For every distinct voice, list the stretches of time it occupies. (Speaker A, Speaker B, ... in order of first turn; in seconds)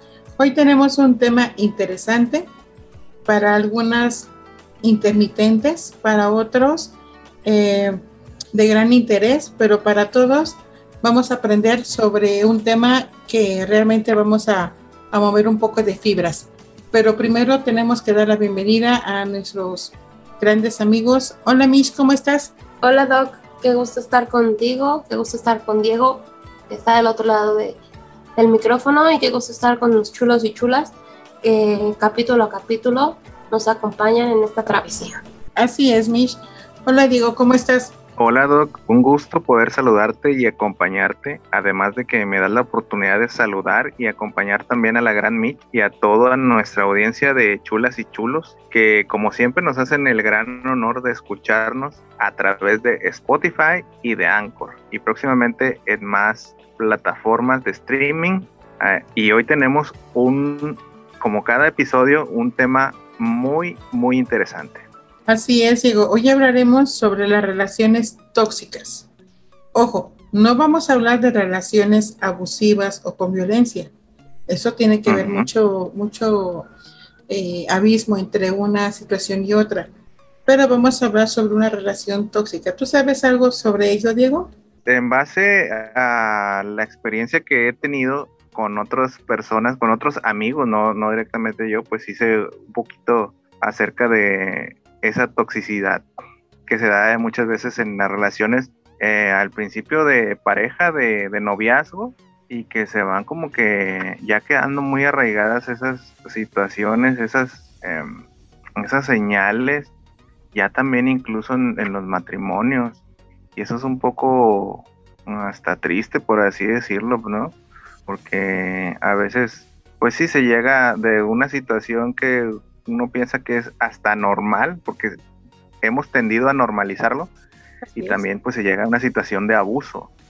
Speaker A: 0.4-2.5, 3.3-4.3, 4.8-8.0, 8.5-22.5, 35.6-38.0, 65.3-69.1, 69.7-73.9, 74.5-76.7, 77.3-79.9, 80.5-84.5, 127.9-128.2
Speaker B: 22.8-27.8, 28.4-35.2
Speaker C: 38.2-64.8, 75.1-75.5, 84.9-96.1, 96.7-108.2, 108.8-109.9, 110.5-113.0, 113.6-117.6, 118.1-125.2, 125.8-127.3, 128.0-130.1